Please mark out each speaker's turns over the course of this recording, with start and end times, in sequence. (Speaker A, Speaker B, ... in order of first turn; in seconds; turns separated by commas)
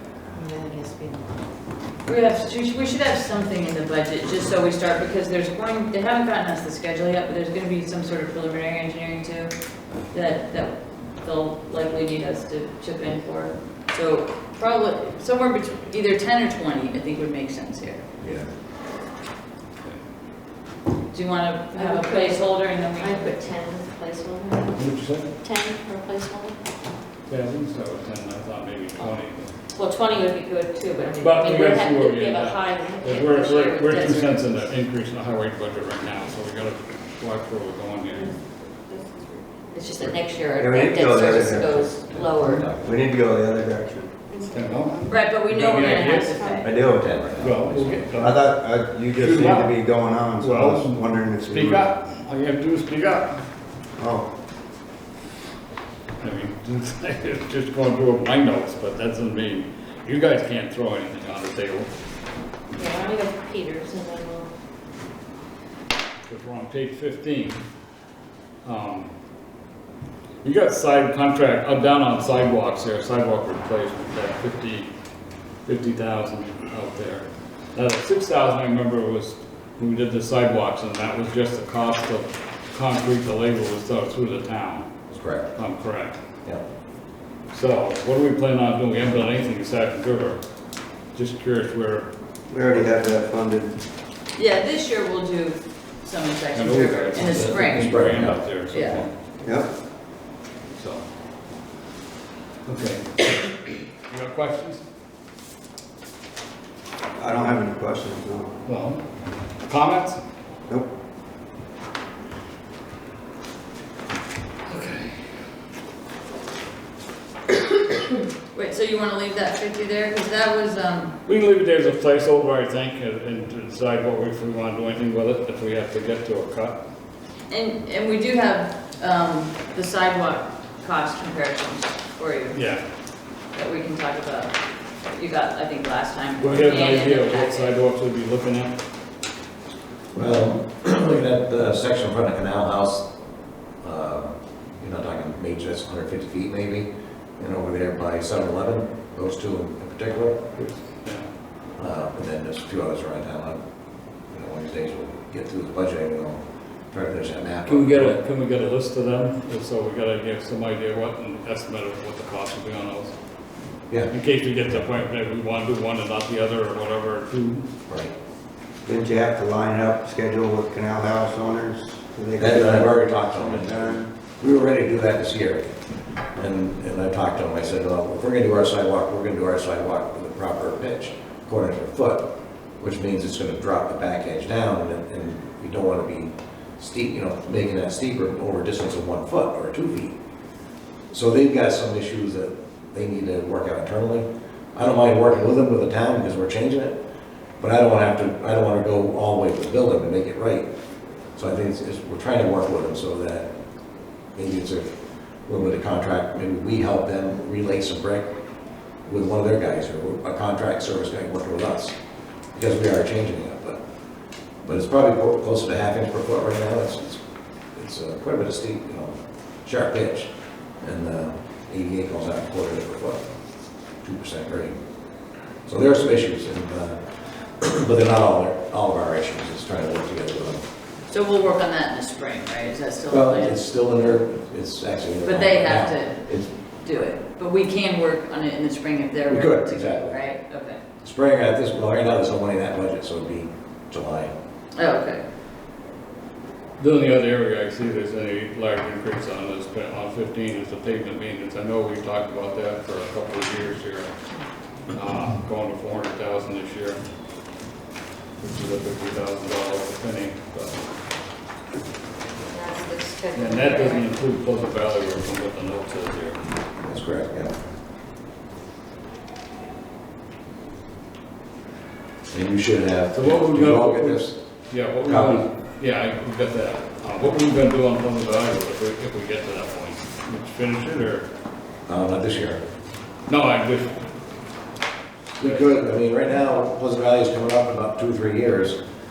Speaker A: 0.3-1.2, Speaker B: 2.0-9.5, Speaker B: 10.1-18.0, Speaker C: 18.2-18.5, Speaker B: 21.1-23.4, Speaker A: 21.7-24.9, Speaker D: 24.8-25.3, Speaker A: 25.4-26.6, Speaker D: 27.3-29.5, Speaker A: 29.7-34.5, Speaker D: 31.2-38.4, Speaker A: 38.1-42.7, Speaker E: 40.6-44.1, Speaker C: 42.1-42.9, Speaker A: 44.3-44.6, Speaker D: 44.5-46.4, Speaker B: 45.1-46.7, Speaker A: 46.2-46.7, Speaker E: 46.6-47.1, Speaker C: 46.7-48.1, Speaker D: 47.4-48.5, Speaker E: 48.2-51.9, Speaker D: 49.1-49.8, Speaker D: 50.4-53.4, Speaker E: 54.0-54.3, Speaker D: 56.2-61.9, Speaker A: 62.8-64.5, Speaker D: 66.3-67.6, Speaker D: 68.6-69.1, Speaker D: 70.4-74.9, Speaker D: 75.7-84.9, Speaker C: 85.1-85.5, Speaker D: 85.5-86.2, Speaker D: 87.5-90.4, Speaker D: 91.1-92.1, Speaker E: 92.5-93.8, Speaker B: 94.3-98.0, Speaker D: 96.5-99.1, Speaker C: 97.7-98.4, Speaker B: 98.7-99.0, Speaker E: 99.4-99.7, Speaker D: 100.8-101.0, Speaker D: 102.7-104.8, Speaker E: 107.2-108.5, Speaker D: 108.7-109.0, Speaker D: 109.7-110.2, Speaker D: 114.7-115.3, Speaker B: 118.5-121.2, Speaker D: 121.3-126.8, Speaker B: 127.5-132.6, Speaker D: 132.5-132.8, Speaker B: 133.5-137.7, Speaker D: 136.4-138.8, Speaker C: 140.1-143.1, Speaker C: 143.8-146.9, Speaker C: 147.4-150.4, Speaker D: 150.6-151.3, Speaker C: 151.8-153.6, Speaker C: 154.3-158.2, Speaker D: 157.7-163.1, Speaker D: 164.1-167.7, Speaker C: 167.9-168.1, Speaker E: 168.8-174.1, Speaker C: 172.4-175.7, Speaker C: 176.3-182.2, Speaker C: 182.8-190.1, Speaker C: 191.1-197.0, Speaker C: 197.6-200.7, Speaker C: 201.4-203.5, Speaker C: 204.3-204.9, Speaker C: 205.5-208.3, Speaker C: 209.1-212.0, Speaker C: 212.5-213.8, Speaker C: 214.6-217.2, Speaker C: 217.8-220.3, Speaker C: 220.8-223.2, Speaker C: 224.0-224.8, Speaker C: 225.7-227.0, Speaker C: 227.6-230.6, Speaker B: 231.1-233.6, Speaker C: 233.1-236.5, Speaker B: 235.2-240.8, Speaker C: 239.3-240.1, Speaker C: 241.0-244.3, Speaker B: 244.8-245.2, Speaker D: 246.8-254.1, Speaker D: 254.9-257.0, Speaker D: 258.4-260.8, Speaker A: 262.5-264.0, Speaker D: 263.3-266.4, Speaker C: 266.8-267.5, Speaker C: 272.3-274.4, Speaker D: 273.1-281.3, Speaker C: 275.1-275.4, Speaker C: 281.9-282.6, Speaker D: 283.3-284.0, Speaker C: 285.4-288.8